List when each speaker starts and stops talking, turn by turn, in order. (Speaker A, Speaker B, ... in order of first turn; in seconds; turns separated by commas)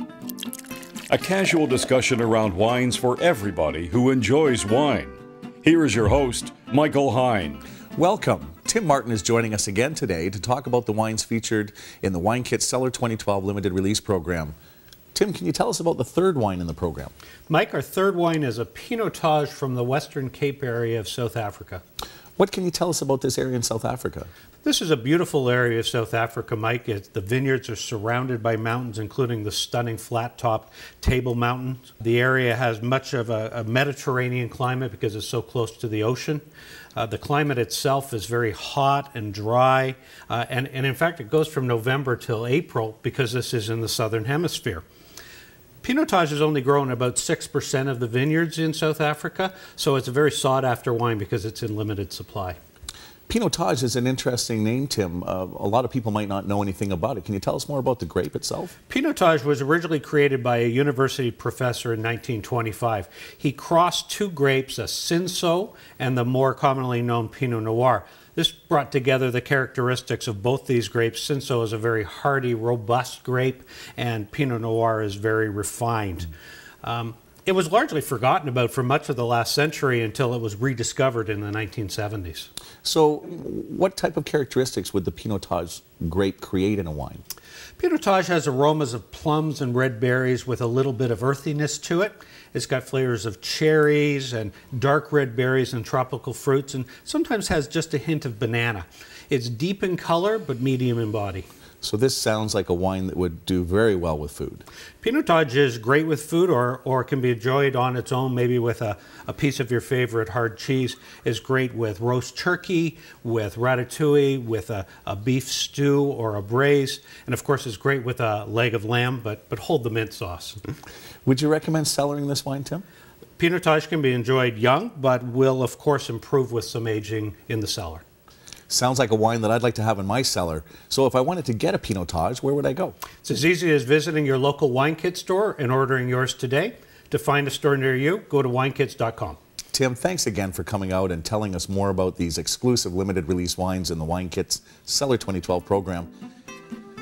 Speaker A: 1.1-7.6, Speaker B: 8.0-14.5, Speaker B: 15.1-17.1, Speaker C: 17.5-21.8, Speaker B: 22.4-24.3, Speaker C: 24.6-36.4, Speaker C: 37.0-44.8, Speaker C: 45.8-52.6, Speaker B: 53.3-58.7, Speaker C: 58.9-76.3, Speaker C: 76.8-82.5, Speaker B: 82.8-87.2, Speaker C: 87.8-101.5, Speaker B: 101.8-104.6, Speaker C: 105.0-120.6, Speaker B: 121.2-122.8, Speaker C: 123.4-128.0, Speaker B: 128.7-132.9, Speaker C: 133.2-139.4, Speaker B: 139.7-146.1